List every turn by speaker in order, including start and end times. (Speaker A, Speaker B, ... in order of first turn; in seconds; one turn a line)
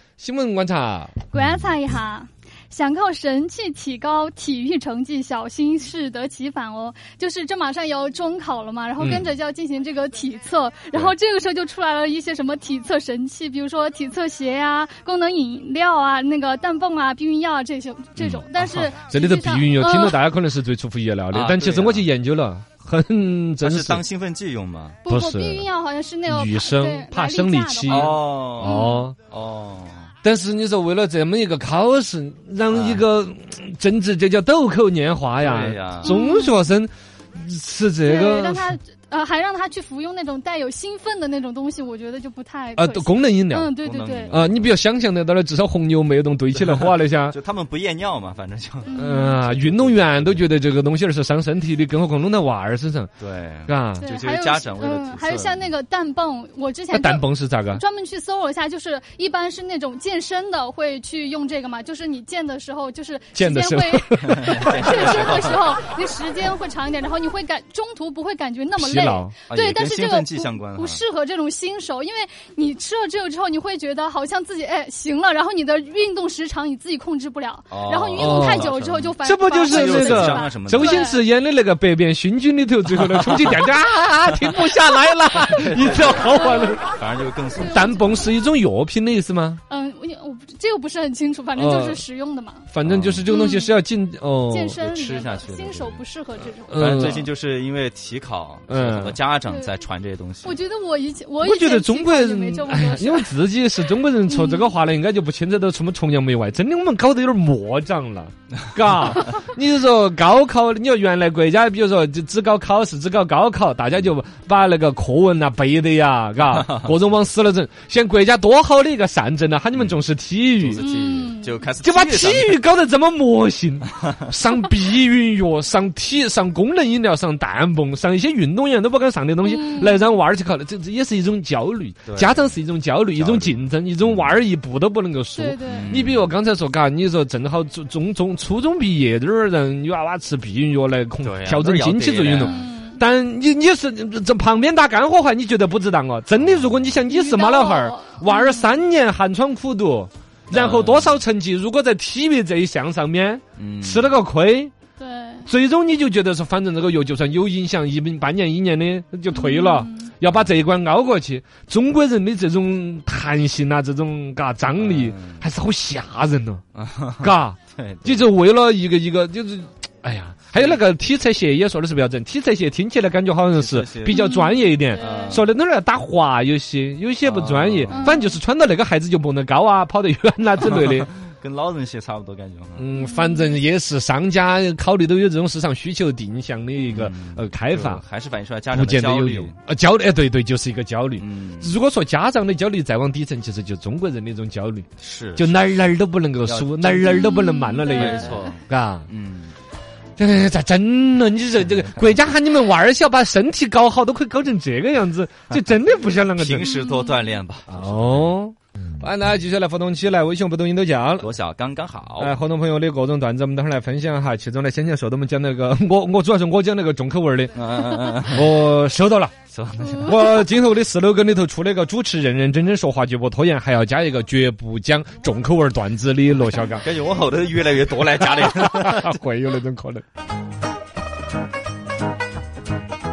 Speaker A: 0.2-1.3
Speaker B: 1.3-20.2
Speaker A: 9.0-9.2
Speaker A: 18.2-24.0
Speaker C: 21.3-22.1
Speaker C: 23.6-25.0
Speaker B: 25.1-29.1
Speaker A: 25.1-25.7
Speaker A: 26.2-29.1
Speaker C: 27.9-30.1
Speaker A: 30.2-38.8
Speaker C: 32.7-33.0
Speaker C: 35.4-36.1
Speaker B: 36.0-36.6
Speaker B: 38.0-44.4
Speaker A: 42.8-43.7
Speaker C: 43.8-44.7
Speaker A: 44.3-47.4
Speaker C: 47.2-50.5
Speaker B: 48.9-49.4
Speaker A: 49.0-53.1
Speaker C: 53.2-55.7
Speaker A: 53.7-54.1
Speaker B: 54.0-81.2
Speaker A: 56.9-57.8
Speaker A: 63.3-65.1
Speaker C: 64.2-65.7
Speaker A: 68.8-69.3
Speaker C: 69.5-71.0
Speaker C: 77.7-81.1
Speaker A: 78.2-78.7
Speaker A: 79.2-86.8
Speaker C: 82.9-83.7
Speaker C: 84.3-84.8
Speaker C: 85.3-88.3
Speaker B: 86.4-86.8
Speaker B: 87.5-88.2
Speaker A: 87.7-89.6
Speaker B: 89.7-92.7
Speaker A: 91.5-92.0
Speaker A: 92.7-94.8
Speaker C: 92.8-93.3
Speaker B: 93.3-93.8
Speaker B: 94.5-97.0
Speaker C: 94.8-96.0
Speaker A: 96.7-97.3
Speaker C: 96.7-100.6
Speaker A: 98.7-99.2
Speaker B: 99.4-99.8
Speaker B: 100.4-103.3
Speaker A: 101.4-120.8
Speaker B: 104.3-104.7
Speaker C: 116.5-116.9
Speaker C: 119.7-120.0
Speaker C: 120.6-122.6
Speaker B: 120.7-121.7
Speaker A: 121.8-154.7
Speaker B: 129.4-130.1
Speaker C: 132.0-132.6
Speaker C: 133.1-134.3
Speaker B: 135.3-136.0
Speaker C: 135.7-136.3
Speaker C: 141.2-142.7
Speaker B: 142.4-143.0
Speaker B: 147.1-148.7
Speaker C: 150.5-151.2
Speaker C: 153.6-154.1
Speaker B: 155.0-155.5
Speaker A: 155.4-166.6
Speaker B: 159.3-160.1
Speaker C: 164.8-165.4
Speaker C: 166.8-168.3
Speaker A: 167.2-181.1
Speaker C: 170.5-170.8
Speaker C: 173.5-174.2
Speaker B: 174.1-175.4
Speaker C: 174.9-175.5
Speaker C: 177.2-178.2
Speaker B: 177.9-178.4
Speaker C: 180.6-182.9
Speaker A: 182.8-188.0
Speaker B: 183.0-183.6
Speaker C: 186.9-189.6
Speaker A: 188.7-199.1
Speaker C: 191.2-191.8
Speaker C: 195.0-195.9
Speaker C: 196.4-199.5
Speaker B: 197.1-198.5
Speaker A: 200.2-206.7
Speaker C: 206.3-208.3
Speaker B: 206.7-207.4
Speaker A: 207.7-211.3
Speaker C: 211.2-212.3
Speaker A: 212.2-217.6
Speaker C: 217.5-218.5
Speaker A: 218.3-219.3
Speaker C: 219.5-220.4
Speaker A: 220.0-226.8
Speaker C: 226.8-229.1
Speaker A: 228.4-230.0